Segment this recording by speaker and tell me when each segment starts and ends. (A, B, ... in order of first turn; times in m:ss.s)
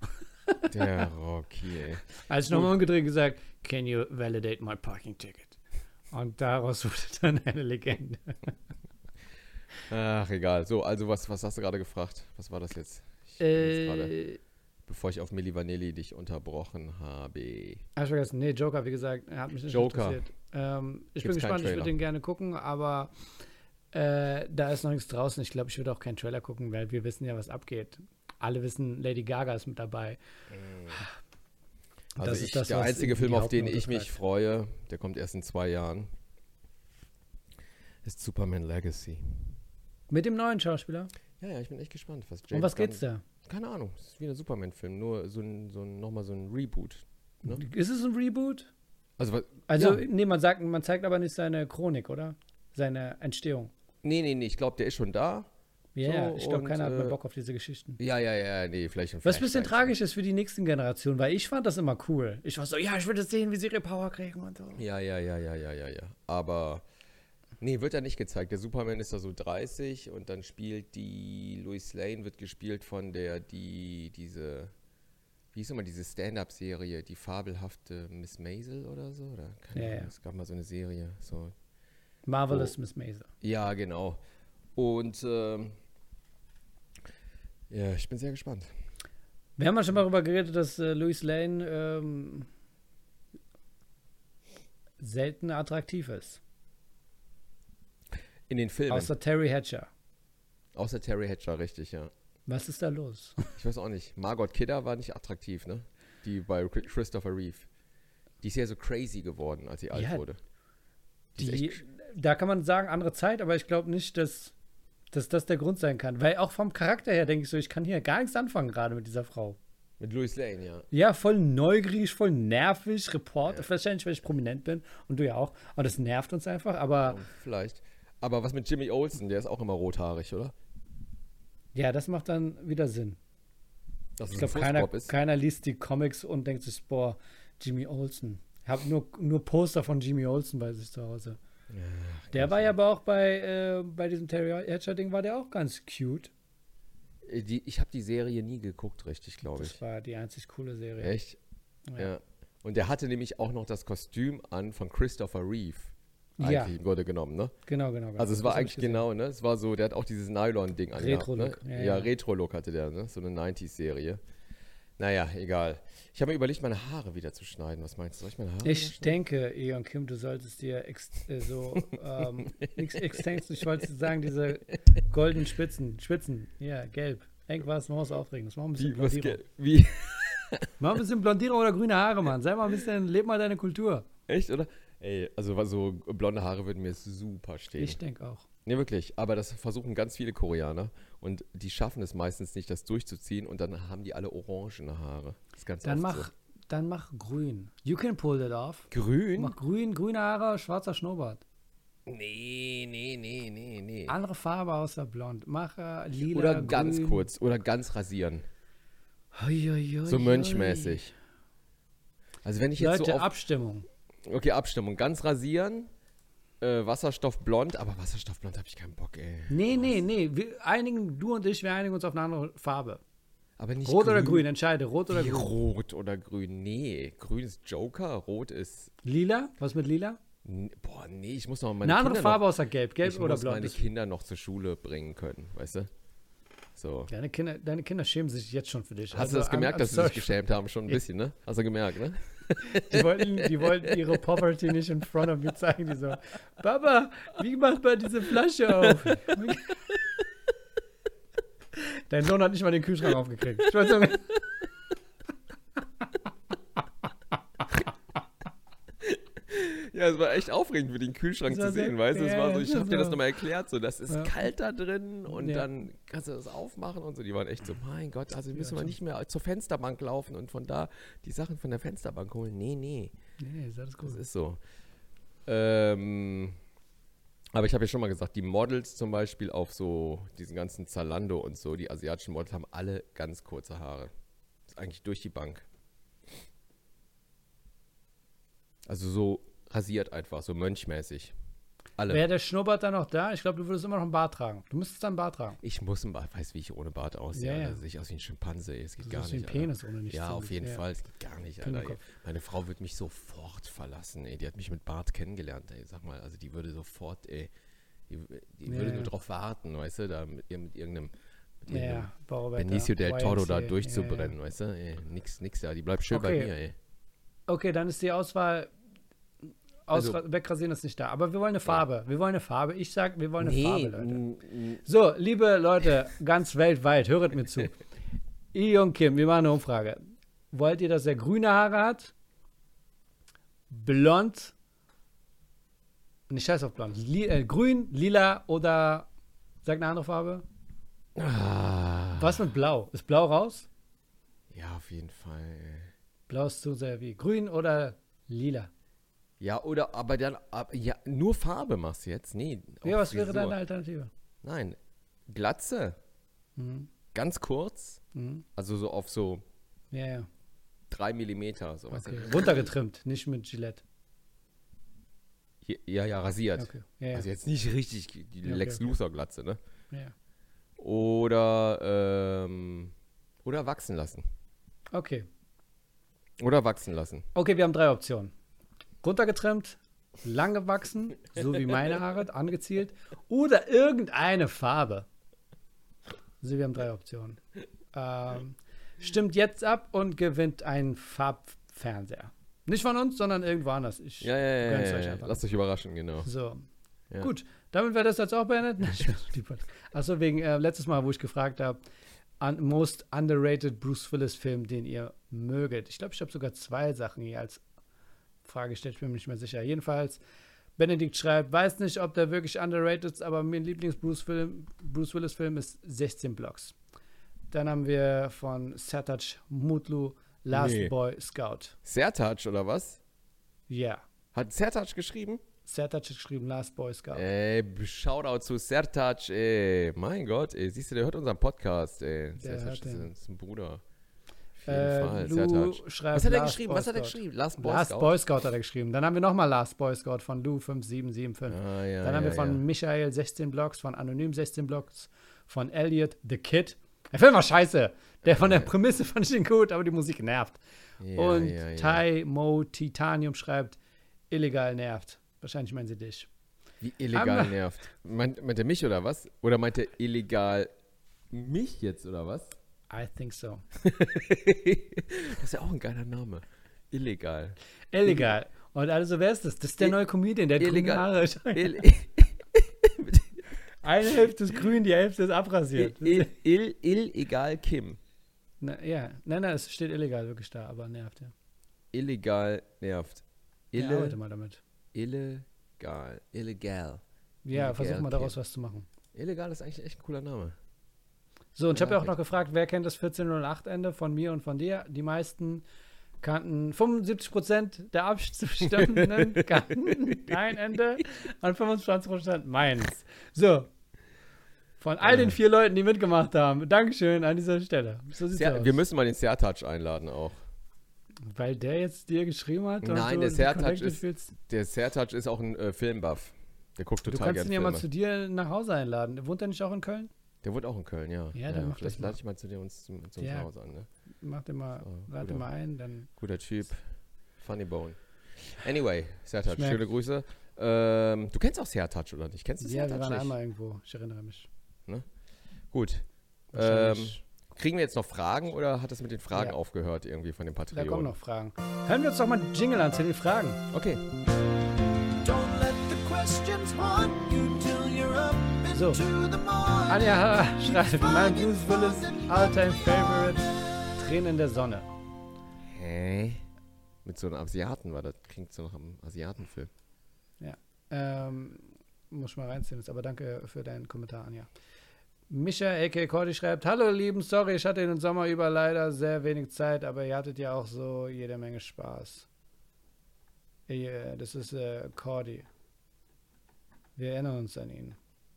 0:00.5-0:00.7 A
0:00.7-0:02.7 B
0:02.2-0:05.6 A
0:06.1-0:08.5 A
0:09.9-0:14.1 B
0:13.4-0:14.4 A
0:14.9-0:17.8 B
0:18.0-0:23.1 A
0:19.7-0:20.2 B
0:21.2-0:21.9 B
0:23.9-0:30.2 A
0:30.5-0:31.0 B
0:32.2-0:34.1 A
0:32.2-0:36.1 B
0:38.0-0:39.5 B
0:40.1-0:41.1 A
0:41.4-0:47.6 B
0:42.5-0:43.2 A
0:47.4-0:48.7 A
0:49.2-0:50.0 B
0:49.7-0:53.7 A
0:54.0-0:55.5 B
0:55.9-0:58.0 A
0:56.0-0:57.2 B
0:58.0-0:59.9 B
0:59.2-1:04.8 A
1:04.7-1:06.8 B
1:07.6-1:14.7 B
1:15.5-1:21.5 B
1:19.7-1:20.1 A
1:22.2-1:23.3 A
1:23.4-1:24.2 B
1:24.8-1:25.7 B
1:27.7-1:28.7 B
1:29.6-1:32.5 A
1:35.0-1:36.4 A
1:38.5-1:39.1 B
1:38.9-1:39.9 A
1:40.7-1:42.1 B
1:42.5-1:43.5 A
1:43.6-1:47.7 B
1:48.4-1:50.4 B
1:49.9-1:50.2 A
1:51.4-1:51.8 B
1:51.4-1:54.5 A
1:55.1-1:59.6 A
2:00.0-2:00.9 B
2:00.9-2:07.2 A
2:07.0-2:10.5 B
2:11.7-2:13.2 A
2:14.2-2:15.1 B
2:14.3-2:21.4 A
2:21.7-2:22.7 B
2:22.3-2:26.3 A
2:27.2-2:29.8 B
2:29.5-2:31.1 A
2:31.0-2:31.4 B
2:32.0-2:37.5 B
2:36.4-2:36.7 A
2:37.7-2:39.0 A
2:38.2-2:44.2 B
2:41.0-2:42.1 A
2:45.0-2:49.1 B
2:48.6-2:59.4 A
2:51.7-2:53.2 B
2:58.8-3:00.7 B
3:00.8-3:04.1 A
3:04.3-3:08.0 B
3:07.8-3:08.5 A
3:08.6-3:16.3 B
3:15.8-3:21.4 A
3:18.9-3:19.6 B
3:22.0-3:24.2 B
3:24.1-3:27.3 A
3:26.3-3:28.4 B
3:29.3-3:31.0 A
3:30.0-3:31.1 B
3:32.4-3:33.3 B
3:32.8-3:33.8 A
3:34.2-3:35.9 B
3:36.6-3:40.0 B
3:39.5-3:43.0 A
3:43.6-3:44.5 B
3:43.8-3:45.5 A
3:45.1-3:48.9 B
3:49.0-3:50.2 A
3:50.4-3:52.4 B
3:51.8-3:53.8 A
3:53.0-3:55.9 B
3:56.8-3:57.1 B
3:57.1-4:00.4 A
3:59.1-4:04.0 B
4:02.7-4:09.8 A
4:11.7-4:14.4 A
4:19.0-4:33.1 B
4:21.5-4:23.2 A
4:24.1-4:24.4 A
4:25.3-4:25.7 A
4:28.5-4:29.0 A
4:33.4-4:34.2 A
4:34.0-4:34.6 B
4:35.4-4:36.6 B
4:37.5-4:44.1 B
4:44.7-4:45.6 B
4:48.9-4:51.3 B
4:52.1-4:55.6 A
4:55.6-5:07.5 B
4:57.3-4:57.8 A
4:59.0-5:00.8 A
5:01.6-5:02.0 A
5:08.1-5:11.1 B
5:08.6-5:09.1 A
5:11.6-5:16.7 B
5:11.7-5:14.3 A
5:16.1-5:16.5 A
5:17.5-5:18.7 A
5:19.9-5:24.2 A
5:19.9-5:20.2 B
5:23.4-5:24.8 B
5:24.8-5:27.8 A
5:28.5-5:30.0 A
5:30.5-5:32.1 A
5:33.7-5:34.5 A
5:36.3-5:39.1 A
5:39.6-5:40.4 A
5:41.2-5:42.4 B
5:42.2-5:43.7 A
5:44.5-5:45.9 B
5:46.3-5:48.7 A
5:49.4-5:53.6 B
5:52.8-5:54.1 A
5:54.4-5:56.0 B
5:56.6-5:56.9 A
5:57.1-5:58.0 B
5:58.1-5:58.4 A
5:58.6-5:59.4 B
5:59.9-6:00.3 A
6:00.9-6:02.7 B
6:01.9-6:03.8 A
6:05.6-6:09.6 B
6:06.6-6:07.3 A
6:08.4-6:08.9 A
6:10.8-6:12.9 B
6:13.4-6:14.2 B
6:14.9-6:15.3 A
6:16.4-6:17.3 B
6:17.3-6:18.3 A
6:19.0-6:25.1 A
6:26.4-6:27.4 A
6:27.9-6:35.4 A
6:34.2-6:36.3 B
6:36.2-6:36.7 A
6:37.2-6:41.8 A
6:42.4-6:47.6 A
6:48.4-6:50.2 A
6:50.8-6:56.7 A
6:57.5-7:01.8 A
7:00.5-7:00.9 B
7:01.8-7:03.0 B
7:03.7-7:04.0 A
7:04.3-7:05.4 B
7:05.6-7:07.2 A
7:07.1-7:13.8 B
7:12.4-7:13.1 A
7:14.6-7:18.1 B
7:14.6-7:30.6 A
7:21.5-7:22.6 B
7:28.2-7:28.7 B
7:31.0-7:32.0 B
7:31.1-7:33.8 A
7:34.3-7:36.3 A
7:36.8-7:40.7 B
7:37.1-7:37.6 A
7:41.3-7:42.6 B
7:42.9-7:43.6 A
7:43.8-7:48.2 B
7:47.9-7:51.9 A
7:50.6-7:53.4 B
7:53.8-7:56.3 A
7:55.8-7:58.0 B
7:58.6-8:01.3 A
8:01.9-8:04.2 B
8:03.8-8:04.6 A
8:04.9-8:08.4 B
8:07.4-8:08.9 A
8:09.1-8:10.6 B
8:11.5-8:15.6 A
8:11.7-8:12.1 B
8:16.2-8:23.7 A
8:18.8-8:20.3 B
8:24.8-8:28.8 A
8:25.0-8:25.3 B
8:28.3-8:30.4 B
8:31.3-8:34.3 A
8:32.8-8:37.8 B
8:37.1-8:40.1 A
8:40.4-8:43.9 B
8:41.3-8:42.2 A
8:43.2-8:43.5 A
8:44.2-8:46.1 A
8:44.8-8:45.4 B
8:46.2-8:46.8 B
8:47.4-8:53.3 B
8:49.5-8:49.8 A
8:52.6-8:54.5 A
8:55.7-9:01.1 B
8:56.5-8:57.2 A
9:00.7-9:03.6 A
9:03.7-9:04.0 B
9:05.2-9:13.0 C
9:08.7-9:09.0 A
9:09.9-9:14.9 A
9:15.7-9:16.4 B
9:17.0-9:19.7 B
9:20.4-9:24.5 A
9:25.3-9:32.3 A
9:33.7-9:35.5 A
9:37.0-9:38.0 A